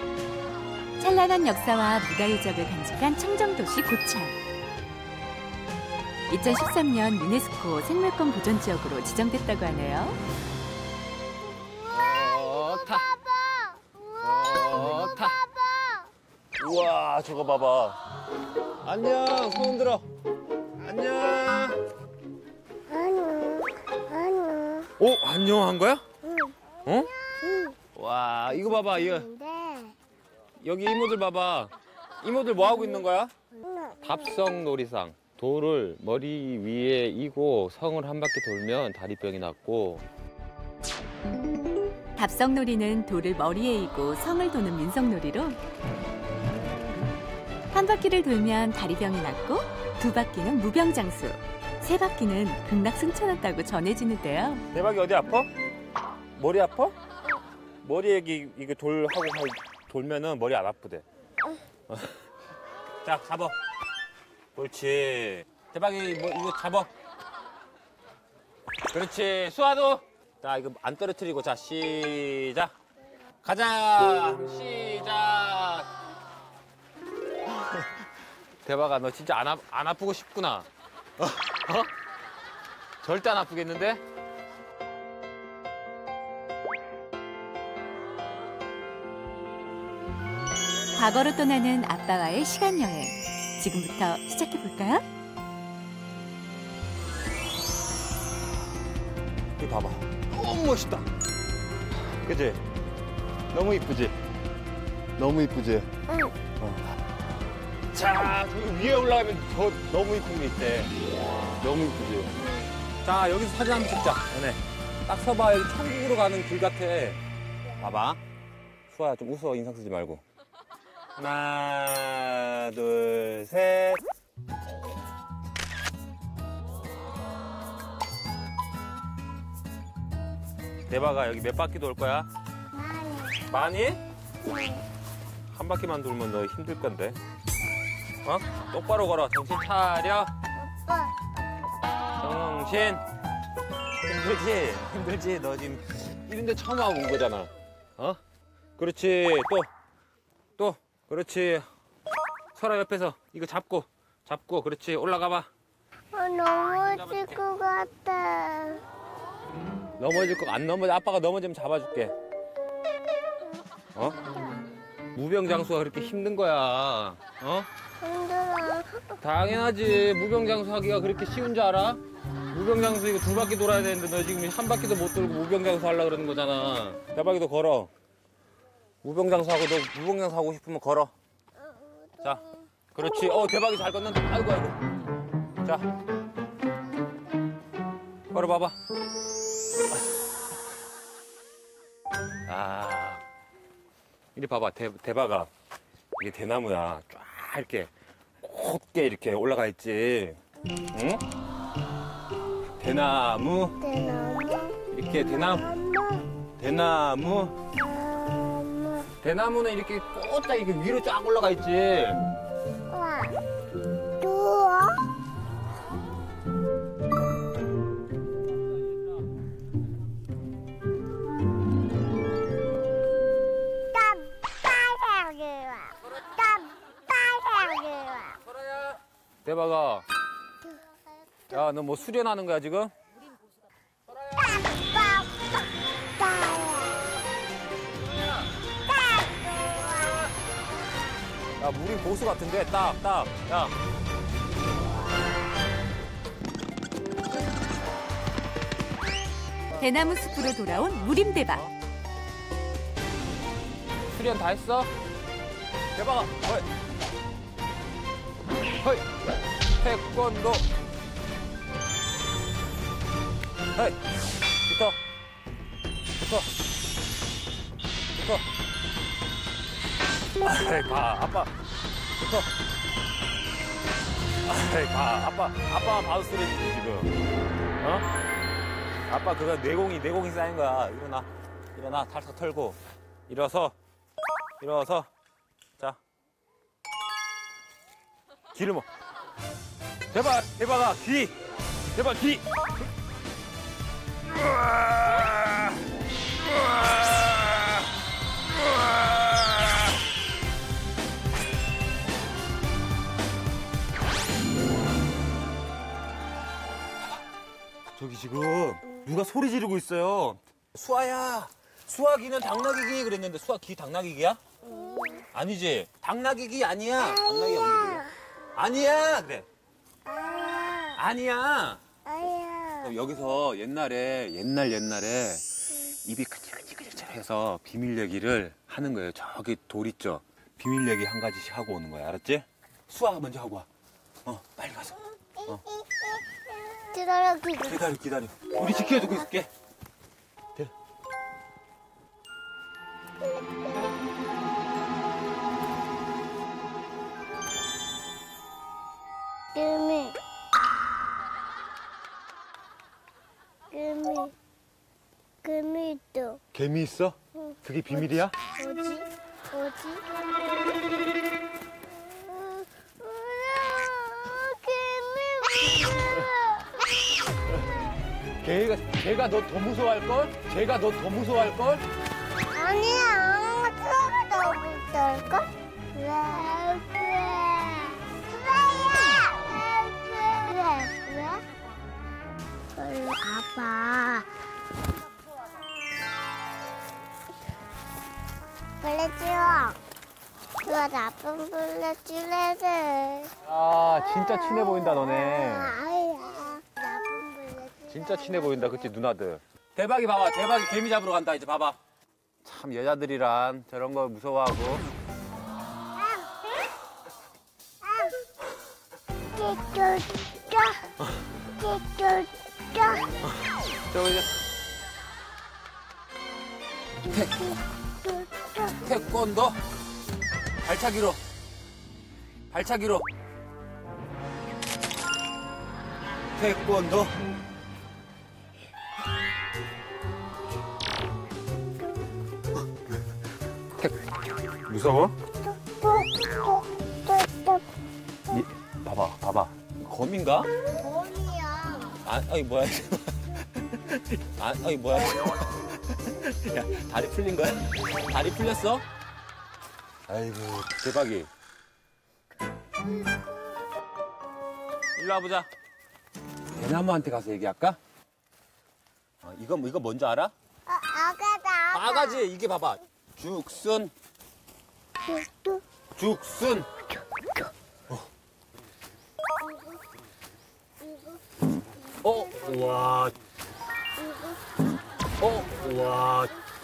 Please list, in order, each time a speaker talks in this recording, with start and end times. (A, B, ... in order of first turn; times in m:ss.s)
0:01.0-0:04.4 A
0:06.3-0:10.2 A
0:11.4-0:16.1 B
0:11.9-0:13.1 C
0:14.2-0:15.4 C
0:16.6-0:18.0 C
0:18.8-0:20.1 C
0:20.8-0:21.8 C
0:22.9-0:24.9 B
0:25.0-0:26.0 C
0:26.2-0:26.6 B
0:27.4-0:27.8 B
0:28.0-0:29.3 C
0:28.5-0:30.0 B
0:30.6-0:31.7 C
0:32.2-0:33.3 C
0:33.6-0:34.2 B
0:34.0-0:40.0 C
0:42.2-0:45.6 A
0:47.7-0:54.6 A
0:54.7-0:55.5 C
0:56.4-0:57.0 C
0:57.8-1:01.0 C
1:01.9-1:02.2 C
1:03.0-1:03.6 C
1:04.6-1:06.9 C
1:08.9-1:12.7 C
1:13.4-1:15.9 C
1:18.6-1:20.7 C
1:21.2-1:21.9 C
1:23.0-1:24.0 C
1:31.0-1:35.0 A
1:39.6-1:41.0 C
1:42.2-1:42.6 C
1:43.5-1:44.1 C
1:45.2-1:45.9 C
1:46.6-1:47.0 C
1:47.9-1:50.9 C
1:51.6-1:52.4 C
1:52.4-1:52.7 B
1:53.0-1:57.2 C
1:57.8-1:58.2 C
1:58.9-2:00.2 C
2:01.2-2:04.0 C
2:10.9-2:12.3 C
2:12.7-2:13.4 B
2:13.5-2:14.0 C
2:14.4-2:14.8 B
2:15.5-2:17.2 C
2:18.2-2:20.3 C
2:20.6-2:21.1 B
2:22.2-2:23.0 C
2:24.0-2:28.2 C
2:28.8-2:29.7 C
2:30.6-2:31.7 C
2:32.6-2:35.5 C
2:36.1-2:38.8 B
2:36.9-2:37.4 C
2:40.0-2:42.1 C
2:45.2-2:47.7 C
2:48.0-2:49.1 B
2:49.2-2:52.0 C
2:52.5-2:57.9 C
2:59.0-3:01.1 C
3:01.6-3:02.6 B
3:02.9-3:04.8 C
3:08.3-3:08.8 C
3:12.5-3:13.2 C
3:14.4-3:15.5 C
3:16.2-3:17.9 C
3:18.4-3:20.4 C
3:20.9-3:21.2 C
3:22.8-3:23.8 C
3:23.8-3:24.8 B
3:24.9-3:25.7 C
3:25.3-3:26.2 B
3:26.6-3:27.5 C
3:27.8-3:29.1 B
3:29.2-3:32.3 C
3:32.9-3:33.4 B
3:34.2-3:35.0 B
3:43.9-3:48.4 B
3:48.5-3:50.0 C
3:51.5-3:52.9 C
3:54.4-3:57.1 B
3:59.2-4:00.1 B
4:01.6-4:03.7 C
4:09.8-4:11.6 A
4:14.2-4:14.9 C
4:16.0-4:16.7 C
4:18.8-4:19.1 C
4:19.8-4:20.6 C
4:24.7-4:25.0 C
4:26.2-4:26.5 C
4:28.2-4:28.4 C
4:30.4-4:31.5 C
4:32.2-4:32.5 C
4:34.5-4:37.1 C
4:37.8-4:38.0 C
4:39.1-4:42.8 C
4:43.3-4:43.8 C
4:44.6-4:45.1 C
4:48.6-4:48.8 C
4:50.1-4:51.4 C
4:51.9-4:52.5 C
4:54.6-4:55.7 C
4:57.1-4:57.3 C
5:07.9-5:14.4 C
5:14.6-5:15.2 B
5:15.3-5:19.4 C
5:17.0-5:18.1 B
5:20.0-5:21.0 B
5:21.0-5:21.8 C
5:22.0-5:23.0 B
5:22.8-5:25.4 C
5:26.0-5:33.7 C
5:34.3-5:35.0 C
5:35.4-5:36.2 B
5:36.9-5:37.8 B
5:37.6-5:39.5 C
5:38.8-5:39.1 B
5:49.5-5:50.2 B
5:53.7-5:54.3 B
5:55.4-5:56.4 B
5:56.5-5:58.3 C
5:57.9-6:00.1 B
6:02.0-6:06.7 B
6:08.4-6:11.9 C
6:12.5-6:21.4 B
6:22.8-6:24.3 B
6:28.8-6:29.7 B
6:30.6-6:33.3 B
6:33.4-6:35.8 C
6:34.1-6:38.8 B
6:37.9-6:41.8 C
6:42.4-6:44.8 C
6:46.0-6:46.3 B
6:47.8-6:48.1 B
6:49.3-6:50.8 B
6:51.6-6:53.1 B
6:53.9-6:54.3 C
6:57.2-6:57.4 B
6:58.0-6:58.7 B
6:58.8-6:59.6 C
7:00.6-7:01.2 C
7:02.5-7:03.0 C
7:06.4-7:07.1 C
7:14.7-7:15.2 C
7:15.4-7:17.6 B
7:18.9-7:20.5 C
7:20.6-7:22.0 B
7:22.0-7:28.8 C
7:30.1-7:31.3 C
7:32.8-7:33.4 B
7:35.0-7:35.5 C
7:36.6-7:37.8 C
7:39.2-7:40.3 C
7:40.7-7:42.2 B
7:41.7-7:43.9 C
7:45.1-7:45.6 B
7:46.0-7:46.7 C
7:49.4-7:49.8 B
7:50.8-7:51.2 B
7:52.0-7:53.1 C
7:54.0-7:54.4 B
7:55.2-7:56.3 C